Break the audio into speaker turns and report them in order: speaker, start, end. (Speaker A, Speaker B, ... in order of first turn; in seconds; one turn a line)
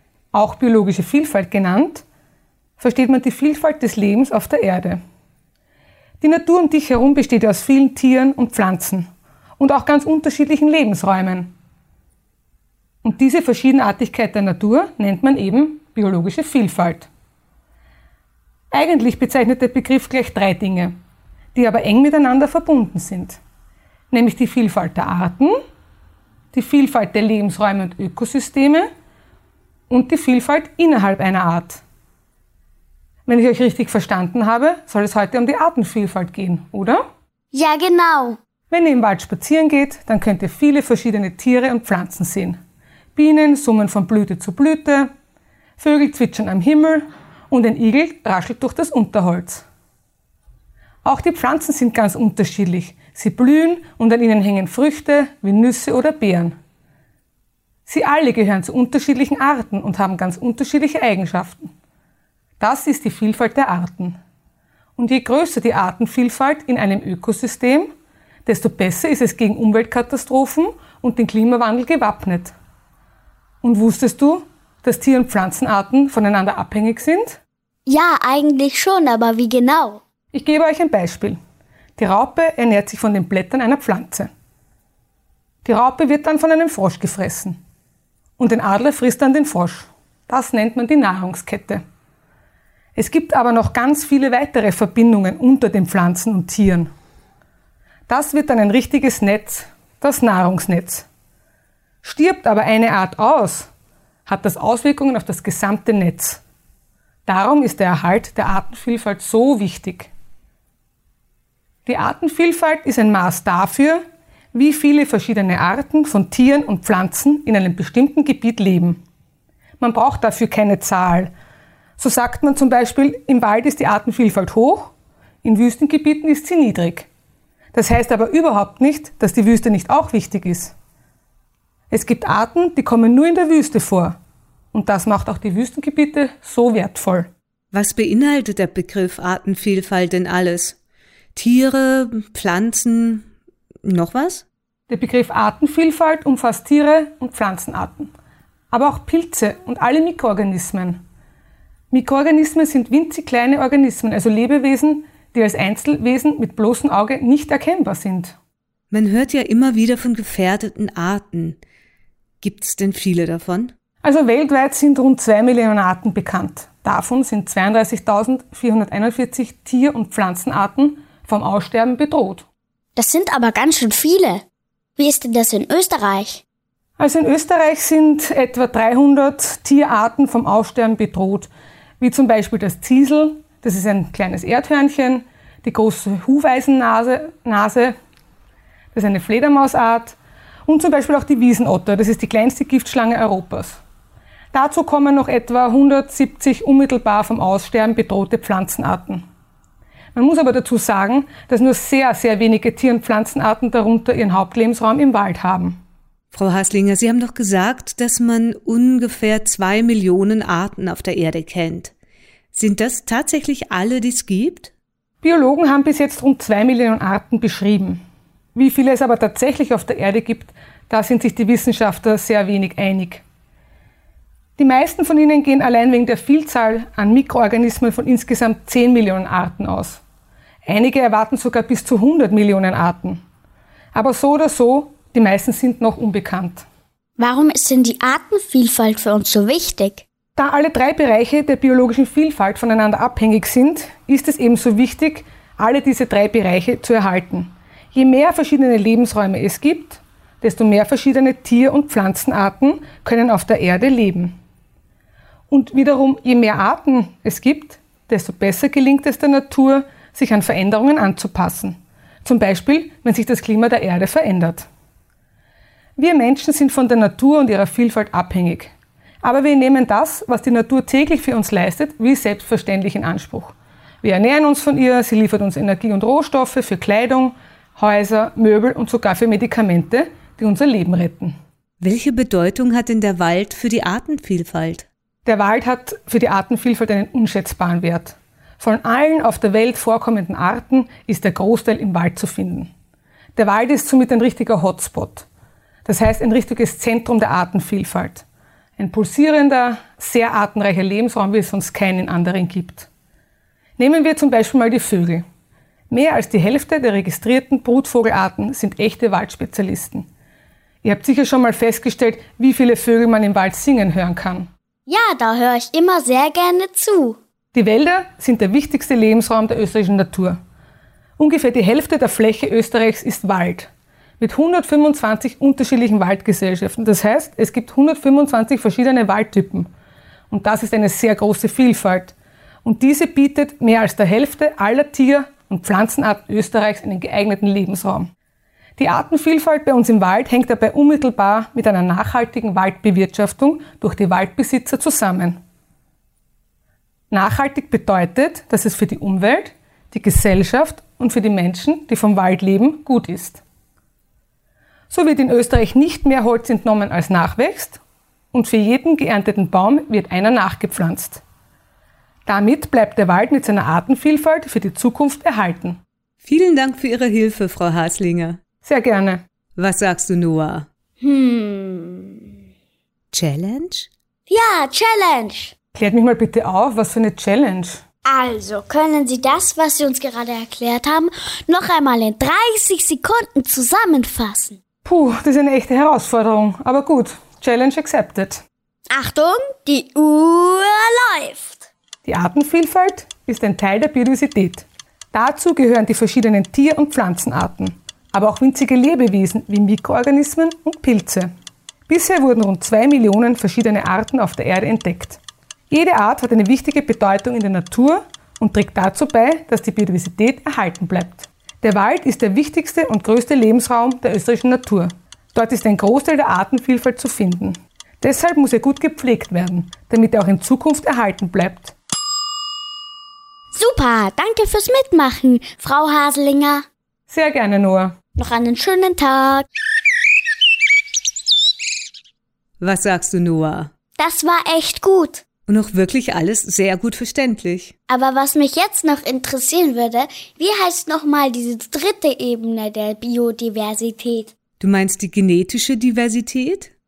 Speaker A: 0.3-2.0
Speaker A: 2.8-5.0
Speaker A: 6.2-11.5
Speaker A: 13.0-17.1
Speaker A: 18.7-20.9
Speaker A: 21.5-23.4
Speaker A: 24.1-25.6
Speaker A: 26.5-28.9
Speaker A: 29.9-31.8
Speaker A: 33.2-37.0
Speaker B: 37.5-38.4
Speaker A: 38.7-42.6
Speaker A: 43.1-45.1
Speaker A: 45.8-49.6
Speaker A: 51.0-56.5
Speaker A: 57.9-61.7
Speaker A: 62.6-64.2
Speaker A: 65.0-67.9
Speaker A: 68.5-72.5
Speaker A: 73.6-77.4
Speaker B: 77.8-80.0
Speaker A: 80.3-81.4
Speaker A: 82.0-84.3
Speaker A: 85.6-87.6
Speaker A: 88.4-91.8
Speaker A: 93.0-96.9
Speaker A: 98.1-101.1
Speaker A: 102.0-103.7
Speaker A: 104.3-106.4
Speaker A: 107.3-110.1
Speaker A: 111.8-114.0
Speaker A: 114.5-119.0
Speaker A: 119.8-121.3
Speaker A: 122.0-124.9
Speaker A: 125.4-127.1
Speaker A: 127.7-130.7
Speaker A: 131.9-134.2
Speaker A: 134.7-137.3
Speaker C: 137.7-140.8
Speaker C: 141.3-143.2
Speaker C: 143.8-144.4
Speaker A: 144.9-148.1
Speaker A: 148.7-151.0
Speaker A: 151.9-158.3
Speaker C: 158.9-161.6
Speaker C: 162.4-163.7
Speaker A: 164.0-172.4
Speaker B: 172.9-174.4
Speaker B: 175.0-176.4
Speaker A: 177.0-181.5
Speaker A: 182.0-187.9
Speaker A: 188.9-193.8
Speaker A: 194.5-199.2
Speaker A: 200.1-205.8
Speaker C: 206.3-211.9
Speaker C: 212.5-214.7
Speaker A: 215.2-218.0
Speaker A: 218.6-223.2
Speaker A: 224.6-230.0
Speaker A: 230.7-233.2
Speaker A: 233.9-236.6
Speaker B: 237.2-240.0
Speaker A: 240.4-254.3
Speaker A: 255.5-264.7
Speaker A: 266.0-281.3
Speaker C: 281.8-284.9
Speaker A: 285.2-292.7
Speaker A: 293.4-295.3
Speaker A: 295.9-298.2
Speaker A: 298.8-302.9
Speaker A: 303.8-305.2
Speaker A: 305.9-310.1
Speaker A: 310.8-314.5
Speaker B: 314.9-317.2
Speaker A: 317.5-320.4
Speaker A: 321.2-329.7
Speaker A: 330.3-338.1
Speaker A: 338.8-345.4
Speaker A: 347.1-353.4
Speaker A: 354.9-357.8
Speaker A: 358.3-361.2
Speaker A: 362.3-365.8
Speaker C: 366.2-368.4
Speaker A: 368.6-369.2
Speaker C: 369.6-370.7
Speaker B: 371.0-372.4
Speaker C: 373.1-373.9
Speaker B: 374.3-375.5
Speaker A: 375.7-377.8
Speaker B: 378.1-384.6
Speaker A: 384.8-388.4
Speaker B: 388.9-391.6
Speaker A: 392.0-401.3
Speaker A: 401.9-421.7
Speaker B: 423.5-426.6
Speaker A: 427.1-427.9
Speaker B: 428.1-429.5
Speaker C: 432.6-433.7
Speaker B: 434.0-435.2
Speaker C: 435.5-437.7
Speaker B: 437.9-444.3
Speaker C: 444.6-446.7